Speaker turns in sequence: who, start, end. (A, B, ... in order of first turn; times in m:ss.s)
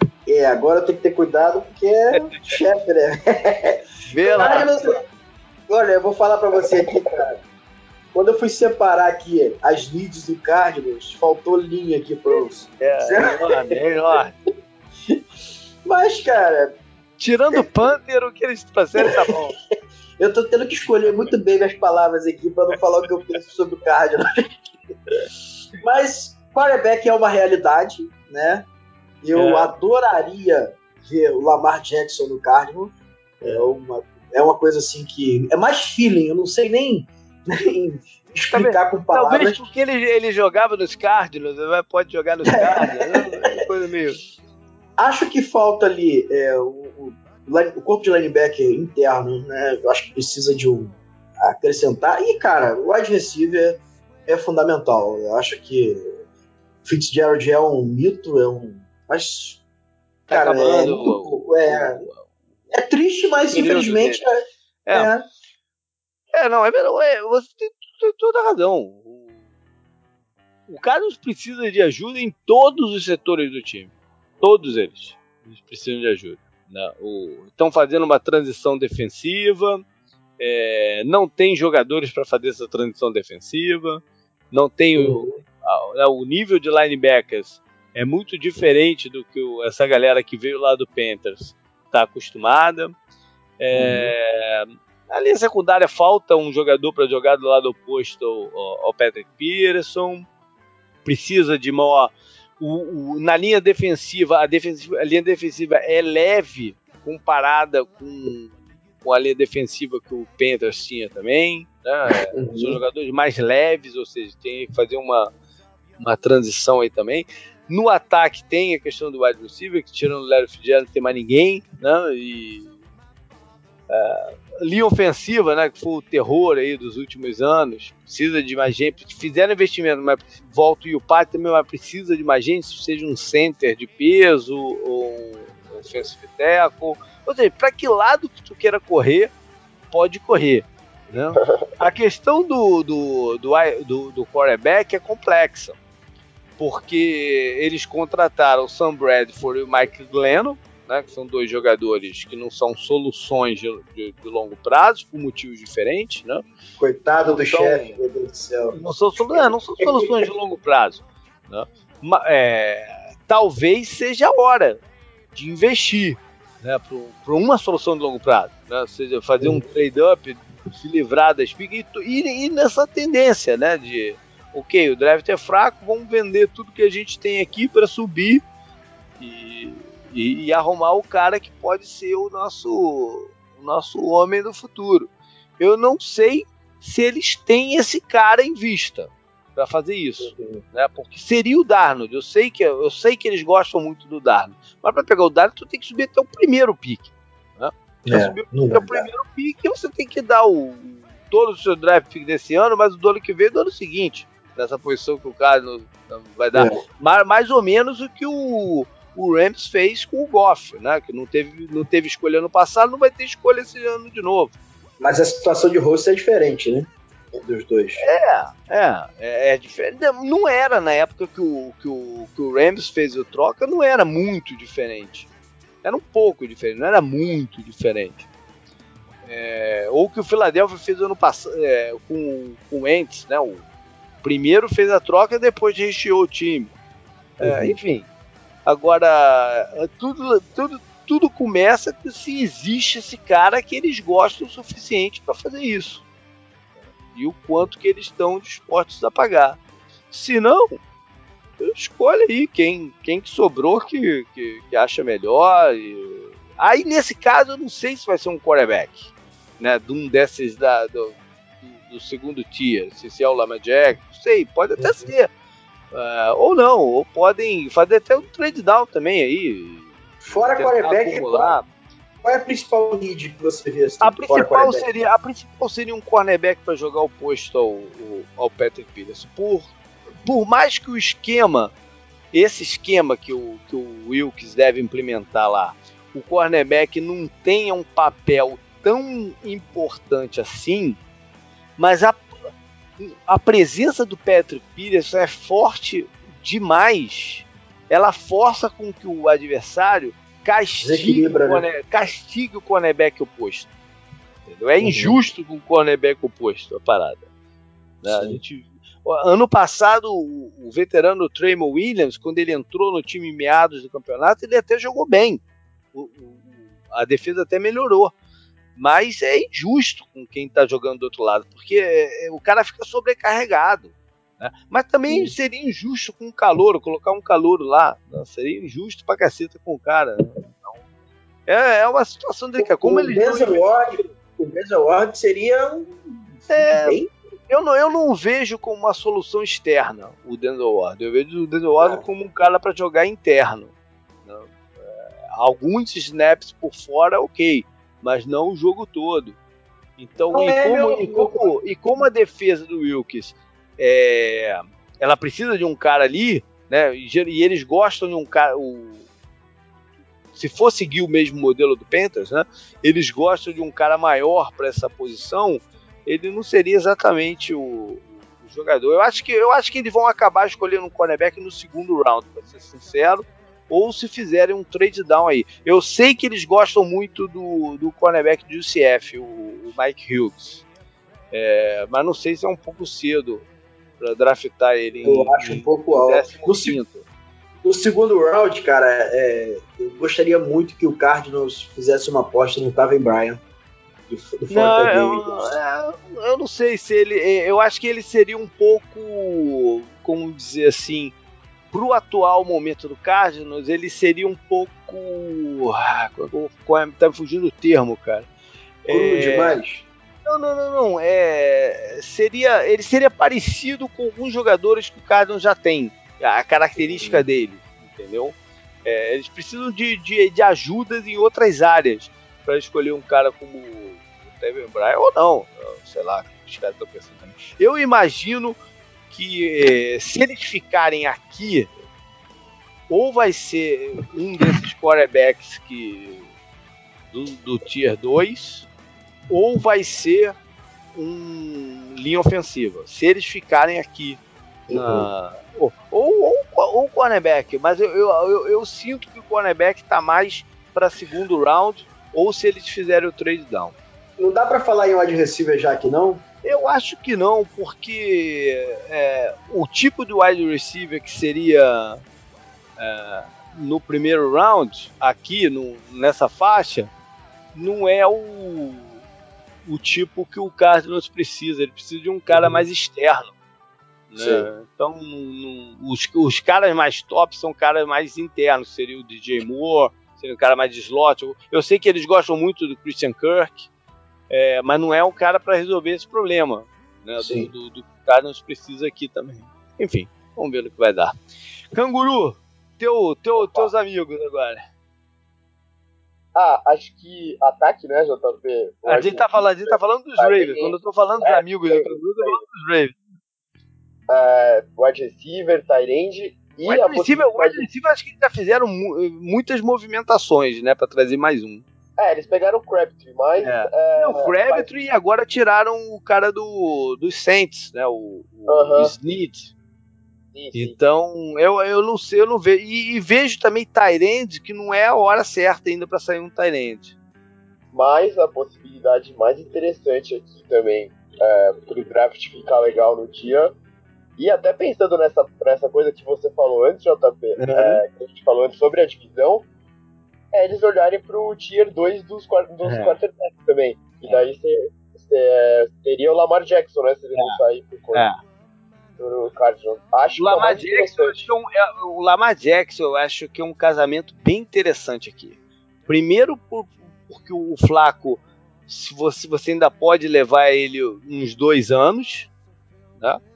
0:00.2-0:05.0 A
0:02.1-0:02.5 B
0:04.0-0:04.7 B
0:05.7-0:07.4 A
0:08.1-0:13.8 A
0:12.8-0:14.3 B
0:15.8-0:16.8 A
0:17.2-0:19.5 B
0:19.0-0:19.4 A
0:20.2-0:24.5 A
0:25.8-0:28.7 A
0:29.2-0:39.6 A
0:29.3-0:29.7 B
0:38.5-0:44.2 B
0:42.5-0:43.6 A
0:45.0-0:56.1 A
0:56.8-0:59.6 A
1:00.3-1:02.0 A
1:00.3-1:02.3 B
1:02.7-1:05.2 A
1:03.5-1:04.2 B
1:06.3-1:09.3 B
1:10.7-1:19.8 B
1:20.4-1:32.9 B
1:25.0-1:25.4 A
1:33.6-1:40.3 B
1:33.7-1:34.1 A
1:41.0-1:55.3 B
1:52.3-1:52.8 A
1:56.0-2:02.7 B
2:03.9-2:19.3 B
2:19.9-2:25.8 B
2:21.4-2:21.7 C
2:26.6-2:36.4 B
2:36.8-2:40.3 A
2:37.2-2:38.0 B
2:38.7-2:44.8 B
2:45.3-2:58.4 B
2:59.2-3:34.5 B
3:10.2-3:10.6 A
3:18.0-3:19.1 A
3:26.5-3:26.8 A
3:35.0-3:38.0 A
3:38.0-3:45.3 B
3:45.8-3:48.3 B
3:49.2-3:53.6 B
3:54.2-3:56.7 B
3:57.4-3:58.1 B
3:57.4-3:57.8 A
3:58.6-4:06.0 B
4:07.1-4:09.6 B
4:10.1-4:10.8 B
4:11.6-4:25.3 B
4:24.8-4:25.1 A
4:25.9-4:29.9 B
4:30.2-4:31.6 A
4:30.5-4:31.6 B
4:32.2-4:34.8 A
4:34.0-4:39.7 B
4:40.2-4:41.7 B
4:42.3-4:51.0 B
4:51.8-4:52.3 B
4:53.0-5:03.7 B
5:00.8-5:01.7 A
5:04.4-5:07.3 B
5:04.8-5:05.2 A
5:08.0-5:15.4 B
5:08.0-5:08.4 A
5:15.9-5:18.1 B
5:18.8-5:30.8 B
5:25.1-5:25.3 A
5:31.5-5:34.0 B
5:32.6-5:37.1 A
5:36.5-5:43.7 B
5:44.2-5:49.4 B
5:50.0-5:59.0 B
5:50.3-5:51.6 A
6:00.3-6:20.6 B
6:21.3-6:23.5 B
6:24.0-6:27.0 B
6:25.0-6:26.8 A
6:27.6-6:33.4 A
6:34.1-6:35.5 A
6:34.5-6:41.1 B
6:41.7-6:48.3 B
6:48.8-6:49.6 B
6:48.9-6:49.8 A
6:50.2-7:08.6 B
6:56.8-6:57.2 A
7:09.1-7:11.7 B
7:12.9-7:16.3 B
7:17.1-7:18.7 B
7:19.3-7:20.4 B
7:20.9-7:33.8 B
7:24.7-7:25.1 A
7:34.2-7:36.2 A
7:36.4-7:42.0 B
7:42.8-7:46.9 B
7:47.5-7:49.0 B
7:49.6-7:53.3 B
7:52.3-7:52.6 A
7:54.1-8:03.7 B
7:54.2-7:54.5 A
8:04.3-8:11.1 B
8:07.2-8:07.5 A
8:11.7-8:14.6 B
8:13.4-8:13.7 C
8:16.3-8:22.4 C
8:18.9-8:23.0 B
8:24.1-8:27.6 C
8:26.6-8:31.6 B
8:32.0-8:34.7 C
8:33.4-8:39.5 B
8:38.5-8:38.9 C
8:40.3-8:40.8 C
8:40.5-8:46.9 B
8:47.7-8:53.5 C
8:54.2-8:59.5 C
8:57.4-8:57.8 B
9:00.3-9:08.1 C
9:02.6-9:03.0 B
9:07.9-9:08.2 B
9:09.0-9:11.2 C
9:10.2-9:22.3 B